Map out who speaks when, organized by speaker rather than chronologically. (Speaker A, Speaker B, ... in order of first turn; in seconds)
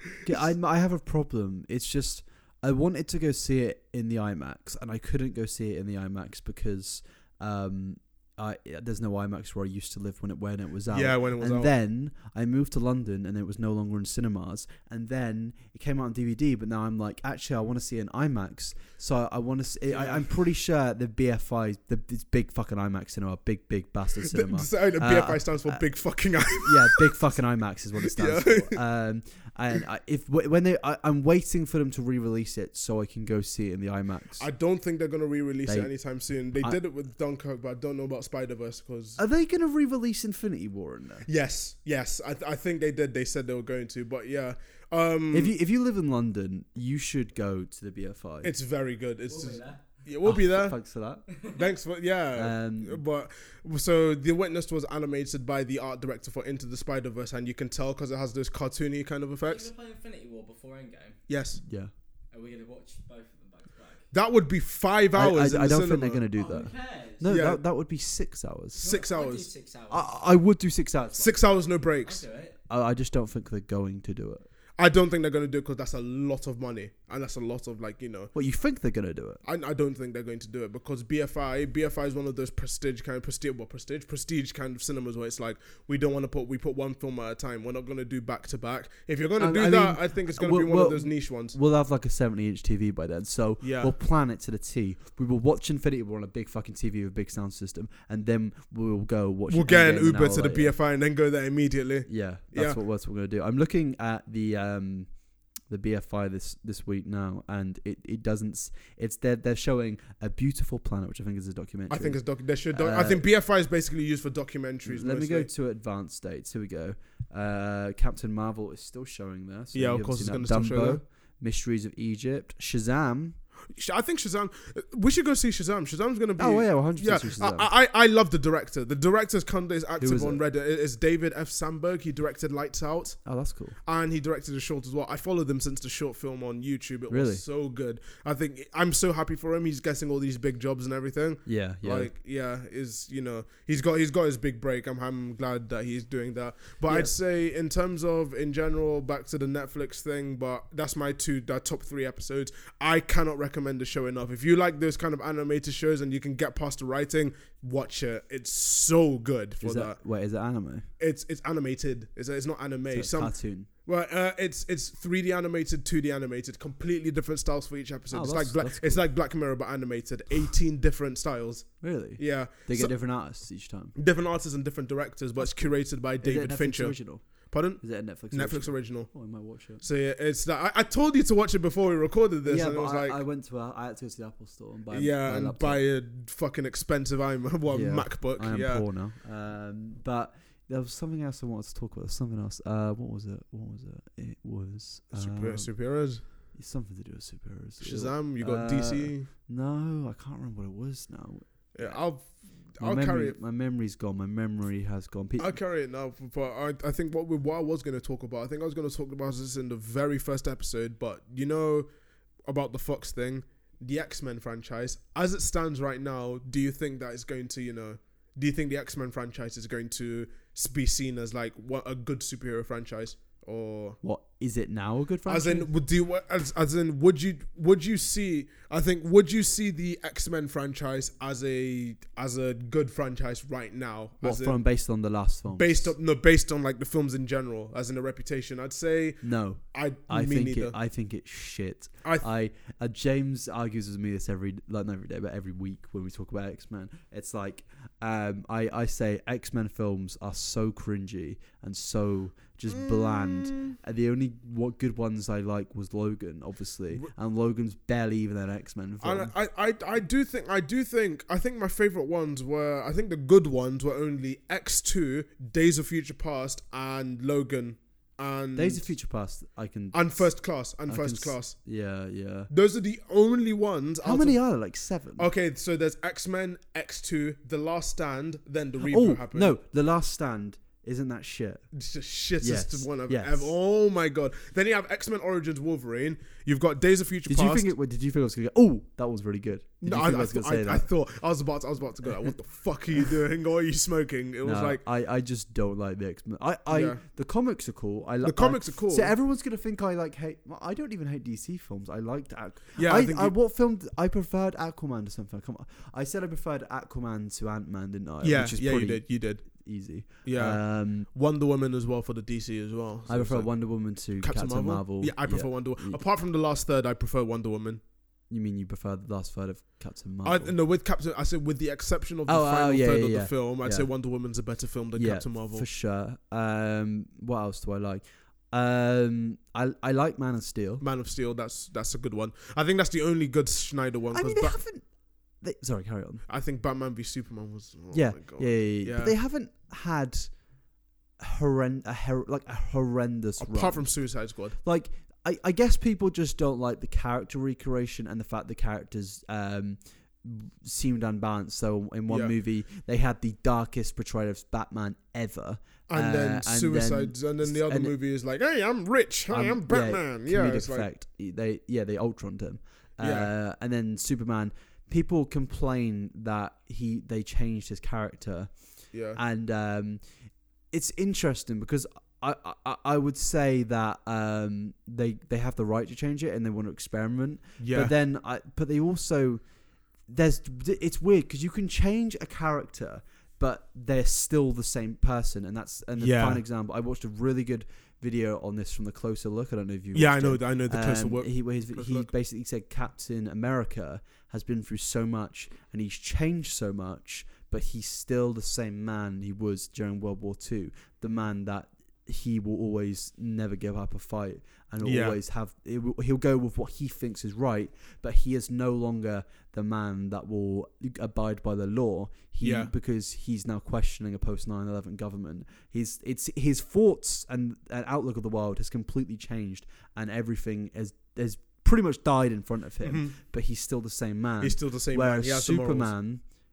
Speaker A: 0.2-25.8, 26.6-34.5, 39.2-41.3, 45.3-48.5, 50.2-51.2, 52.4-53.0, 61.6-61.9, 65.2-68.8, 69.9-71.3, 72.7-74.5, 78.3-79.4, 89.4-100.7, 102.1-105.1, 105.7-112.2, 112.7-113.2, 114.9-123.4, 126.4-127.7, 130.0-130.4, 133.2-133.8, 137.1-137.4, 141.5-142.1, 146.9-147.1, 159.6-160.9, 162.9-163.7, 168.1-169.0, 171.8-173.9, 175.4-177.2, 177.8-179.8, 182.5-185.8, 187.7-195.7, 196.5-202.0, 202.8-205.6, 224.0-225.7, 234.2-235.9, 239.2-259.3, 268.6-270.3, 270.9-272.5, 274.0-275.3, 278.8-281.6, 282.4-283.5, 287.3-290.9, 294.4-311.1, 313.1-316.0, 318.3-320.6, 322.3-323.9, 324.9-330.8, 334.1-334.9, 335.4-336.2, 337.9-340.3, 341.2-343.9, 344.6-357.9, 359.3-368.5, 369.1-370.0, 370.7-379.4, 380.1-426.2
Speaker B: 10.9-11.7, 19.9-20.3, 24.2-27.1, 28.0-28.8, 34.4-39.2, 41.3-45.5, 48.4-50.8, 51.5-59.7, 61.3-61.6, 64.1-66.2, 67.3-67.6, 68.8-69.5, 71.2-72.2, 74.8-78.3, 79.5-91.6, 93.6-93.9, 99.5-102.8, 111.9-115.5, 119.7-121.0, 123.7-133.2, 133.8-160.0, 161.0-163.3, 163.9-172.9, 174.0-179.1, 179.8-183.2, 184.9-188.8, 195.1-196.2, 197.8-199.3, 201.8-203.4, 205.4-211.9, 212.5-224.0, 225.3-234.6, 235.6-240.8, 252.7-253.8, 259.0-268.9, 269.9-271.6, 272.5-274.4, 275.2-279.6, 281.7-287.7, 289.8-294.8, 296.7-297.0, 298.2-299.1, 302.8-303.4, 308.2-309.5, 310.2-313.5, 314.2-317.8, 320.2-325.6, 330.8-334.6, 336.3-339.1, 343.4-344.6, 352.1-352.3, 355.9-360.9, 363.0-363.3, 368.9-369.2, 377.6-377.9, 386.0-386.4, 389.9-392.1, 404.8-405.2, 412.4-412.7, 422.8-423.1, 424.4-425.9
Speaker C: 49.3-49.8, 51.3-51.7, 59.5-61.2, 62.3-64.1, 66.3-67.3, 68.8-70.2, 72.0-72.6